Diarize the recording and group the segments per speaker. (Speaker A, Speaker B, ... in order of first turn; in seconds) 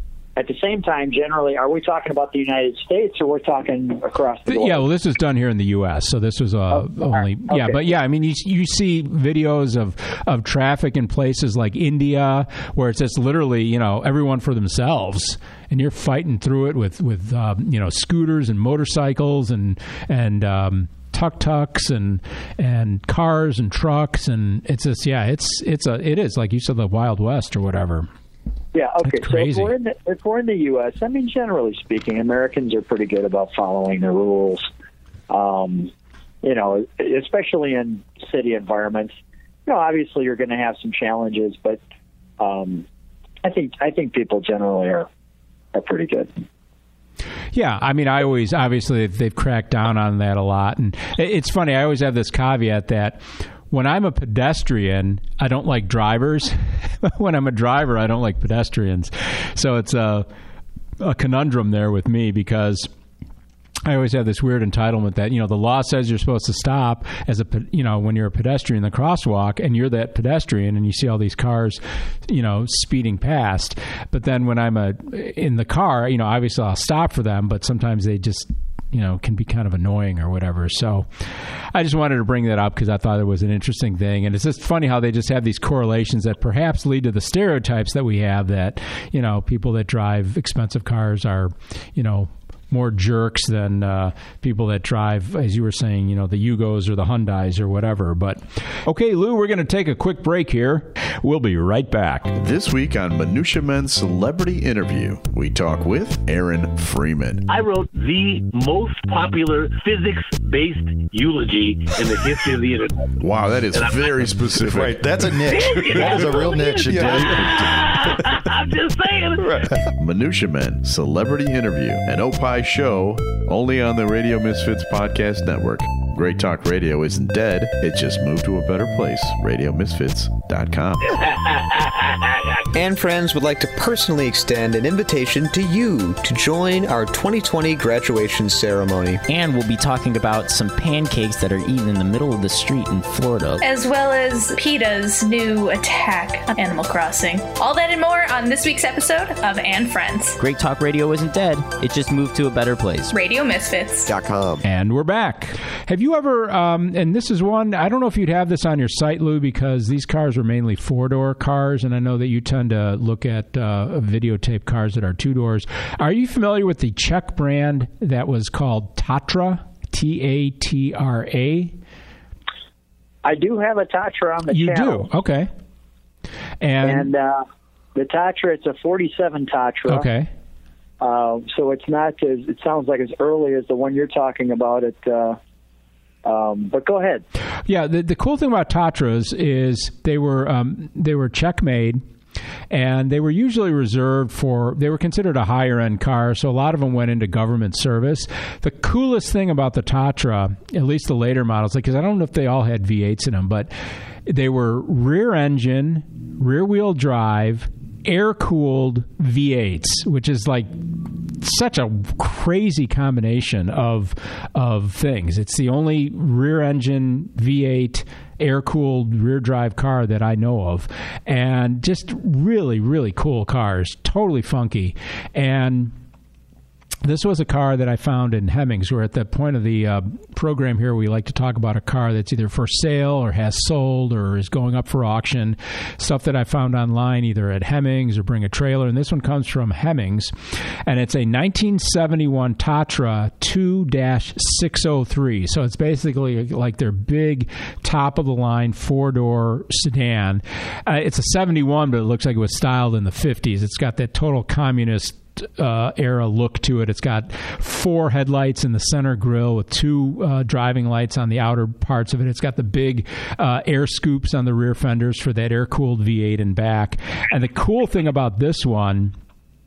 Speaker A: 0.4-4.9, 6.8-7.8, 28.7-34.7, 35.3-35.9, 36.4-39.1, 39.7-41.8, 42.4-42.9, 43.4-45.1, 45.7-46.3, 173.2-175.1, 176.8-177.4, 177.9-180.1, 181.0-185.4, 186.2-187.2
Speaker B: 4.5-28.1, 29.0-29.8, 47.5-60.3, 61.0-62.9, 63.9-81.1, 81.7-102.3, 154.6-171.8, 174.5-175.5, 176.6-177.1, 179.9-180.3, 187.7-192.0, 192.7-203.7, 204.3-225.9, 227.0-269.1
Speaker C: 102.3-107.4, 113.2-115.1, 116.0-117.4, 120.0-131.0
Speaker D: 107.5-113.2, 113.7-114.2, 115.4-119.6, 131.2-132.6
Speaker E: 114.6-118.2, 119.4-119.8, 154.1-154.6
Speaker F: 132.7-139.2
Speaker G: 139.3-143.6, 150.4-153.1
Speaker H: 143.6-150.4, 153.1-154.1